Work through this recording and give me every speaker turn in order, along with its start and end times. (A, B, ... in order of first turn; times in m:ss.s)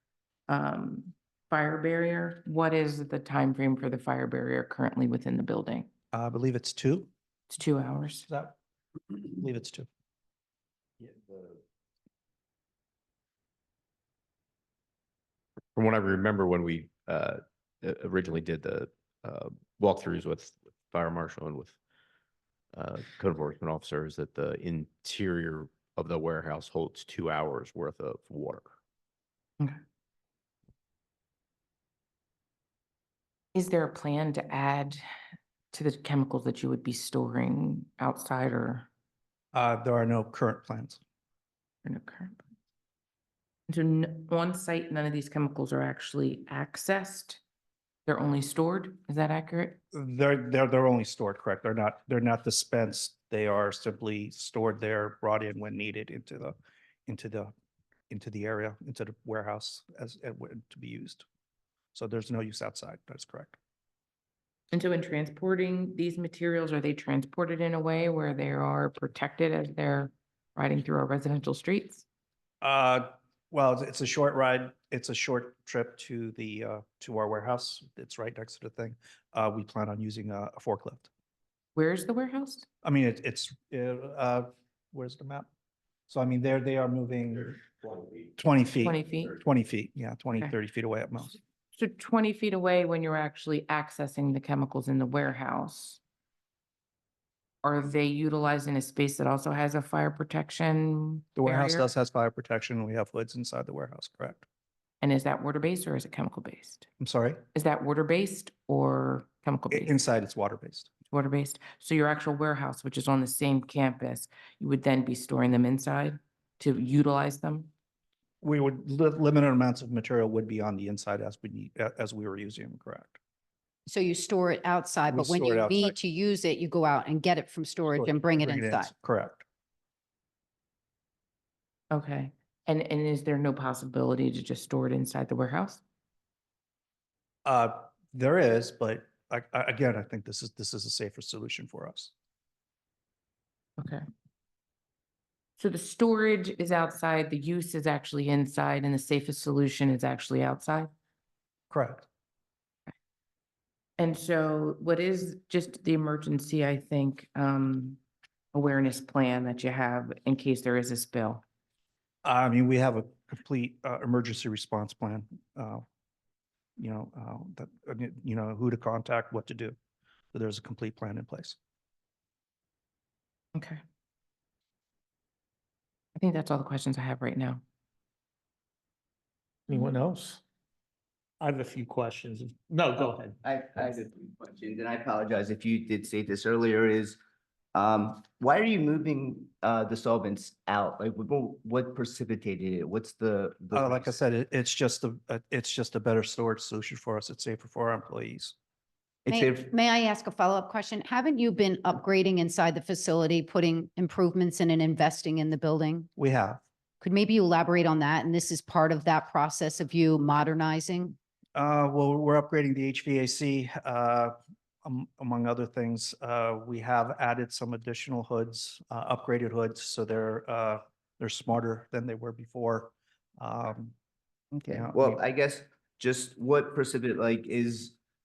0:00.5-0:05.9 A
0:06.1-0:07.1 B
0:07.5-0:08.3 A
0:08.3-0:08.6 B
0:09.4-0:09.9 B
0:15.8-0:21.8 C
0:22.7-0:28.7 C
0:33.5-0:35.0 A
0:35.7-0:38.9 A
0:39.5-0:41.0 B
0:41.8-0:42.4 A
0:43.7-0:47.4 A
0:48.0-0:49.8 A
0:49.9-0:56.6 B
0:57.1-0:57.5 B
0:58.1-1:01.2 B
1:01.9-1:03.6 B
1:04.7-1:12.0 A
1:12.6-1:21.1 B
1:21.7-1:22.7 A
1:22.8-1:25.5 B
1:26.1-1:27.6 B
1:28.4-1:31.4 B
1:28.8-1:29.3 A
1:31.7-1:36.0 A
1:37.6-1:41.9 A
1:41.4-1:44.4 B
1:45.0-1:46.9 A
1:47.0-1:47.4 B
1:47.6-1:49.9 A
1:49.7-1:50.9 B
1:51.1-1:57.7 A
1:58.4-2:03.2 B
2:03.9-2:08.9 D
2:05.1-2:05.9 B
2:07.9-2:09.4 B
2:11.9-2:15.8 A
2:17.5-2:22.1 B
2:23.8-2:24.0 A
2:25.6-2:30.9 A
2:31.7-2:32.1 B
2:34.0-2:38.0 A
2:38.5-2:41.4 A
2:42.2-2:45.8 B
2:46.8-2:49.8 B
2:50.3-2:51.6 B
2:53.6-2:53.8 A
2:56.2-2:57.6 A
2:59.7-3:00.4 E
3:01.4-3:03.4 E
3:03.1-3:07.2 F
3:07.7-3:14.2 F
3:13.7-3:18.6 B
3:19.3-3:19.7 F
3:19.3-3:26.1 D
3:26.2-3:26.6 B
3:27.0-3:31.2 D
3:31.6-3:44.0 B
3:44.5-3:48.0 F
3:44.7-3:45.2 B